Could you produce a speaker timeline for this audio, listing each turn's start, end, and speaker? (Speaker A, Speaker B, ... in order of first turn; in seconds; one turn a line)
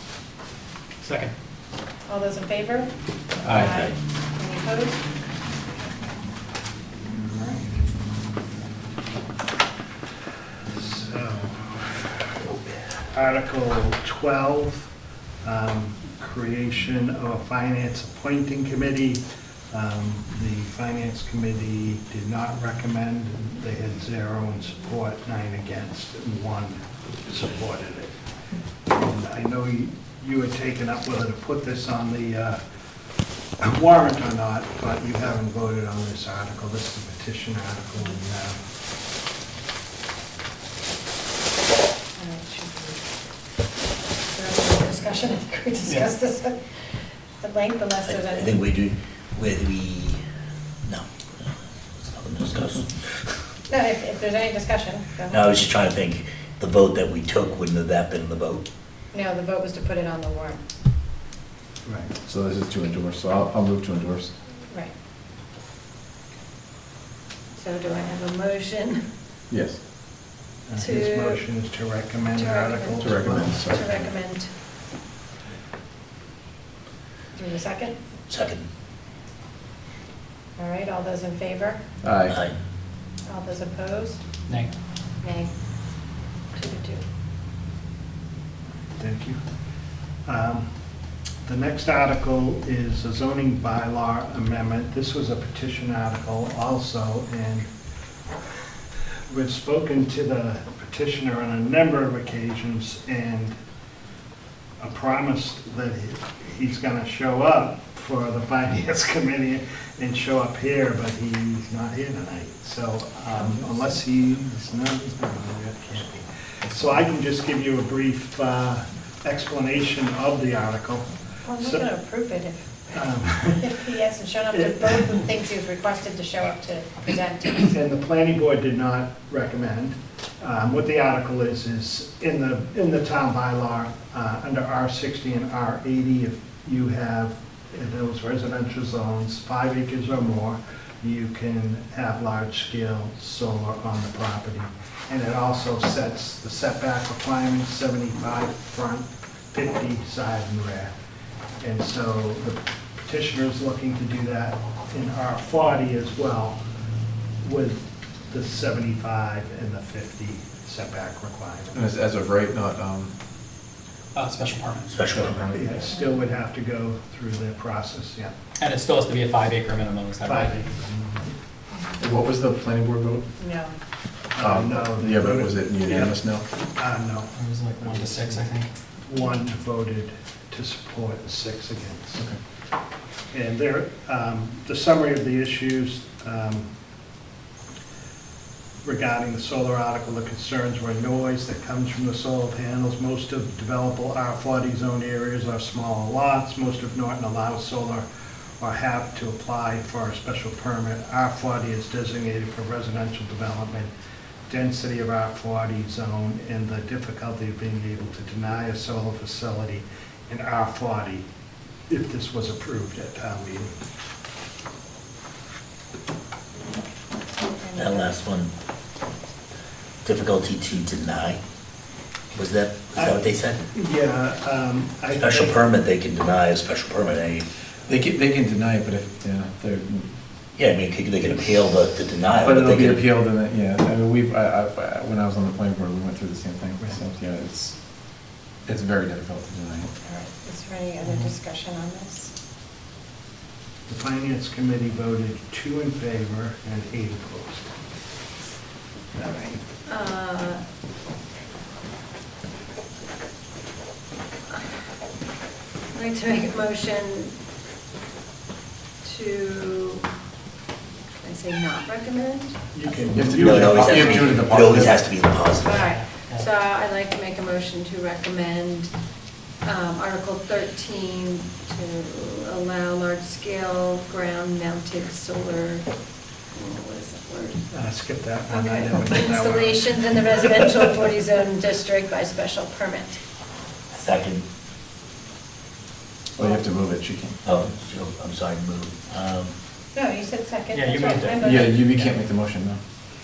Speaker A: 1.0-1.3
Speaker B: 2.1-2.9
Speaker C: 3.4-3.8
Speaker B: 3.4-5.0
Speaker D: 3.5-3.9
Speaker E: 7.3-7.6
Speaker E: 10.7-11.7
Speaker E: 13.1-14.9
Speaker E: 15.4-28.1
Speaker E: 28.9-32.6
Speaker E: 33.6-38.6
Speaker B: 42.2-43.0
Speaker B: 44.3-46.6
Speaker B: 47.4-48.5
Speaker D: 48.0-50.2
Speaker D: 50.8-53.3
Speaker B: 53.7-55.4
Speaker D: 55.3-58.6
Speaker B: 59.1-60.6
Speaker E: 61.8-62.1
Speaker C: 62.2-64.3
Speaker B: 67.5-69.0
Speaker C: 69.5-69.8
Speaker E: 70.7-73.7
Speaker B: 70.8-71.4
Speaker B: 72.3-74.5
Speaker C: 73.0-74.0
Speaker B: 77.3-78.0
Speaker D: 78.3-78.7
Speaker B: 80.6-81.8
Speaker C: 82.0-82.3
Speaker D: 82.3-82.5
Speaker B: 83.2-84.2
Speaker B: 85.2-85.5
Speaker B: 86.5-87.0
Speaker E: 89.0-89.4
Speaker E: 90.2-90.6
Speaker E: 91.5-97.7
Speaker E: 99.3-103.5
Speaker E: 104.8-121.8
Speaker B: 121.4-122.7
Speaker E: 122.9-123.9
Speaker B: 123.6-127.7
Speaker E: 124.5-125.1
Speaker E: 127.7-150.9
Speaker E: 151.6-156.6
Speaker E: 157.4-161.8
Speaker C: 161.7-163.1
Speaker A: 164.1-164.9
Speaker D: 164.9-165.4
Speaker C: 165.1-165.8
Speaker E: 165.5-168.3
Speaker A: 168.6-170.6
Speaker E: 170.2-171.2
Speaker C: 172.0-173.2
Speaker B: 173.4-173.7
Speaker E: 174.3-176.2
Speaker C: 174.4-176.4
Speaker E: 176.7-178.5
Speaker A: 177.3-178.7
Speaker E: 179.1-182.2
Speaker E: 183.3-186.7
Speaker E: 188.8-198.1
Speaker E: 198.6-203.9
Speaker E: 204.5-211.2
Speaker E: 211.9-213.7
Speaker B: 217.4-218.1
Speaker D: 217.7-218.5
Speaker D: 220.0-221.4
Speaker D: 222.3-223.6
Speaker E: 222.9-225.7
Speaker D: 225.1-227.5
Speaker C: 227.9-230.1
Speaker D: 230.6-233.1
Speaker C: 232.4-237.8
Speaker C: 238.7-239.9
Speaker B: 240.0-242.3
Speaker E: 243.9-247.7
Speaker B: 249.2-250.6
Speaker B: 255.9-257.3
Speaker B: 259.0-260.1
Speaker B: 261.2-263.1
Speaker E: 262.7-264.7
Speaker C: 263.1-265.0
Speaker D: 263.3-265.9
Speaker B: 265.6-268.9
Speaker A: 265.8-266.4
Speaker B: 269.6-275.9
Speaker B: 276.5-277.6
Speaker E: 277.7-280.5
Speaker B: 278.5-283.2
Speaker D: 283.9-284.4
Speaker C: 286.4-287.4
Speaker D: 287.4-289.5
Speaker B: 289.9-291.7
Speaker A: 290.7-292.1
Speaker C: 291.4-292.8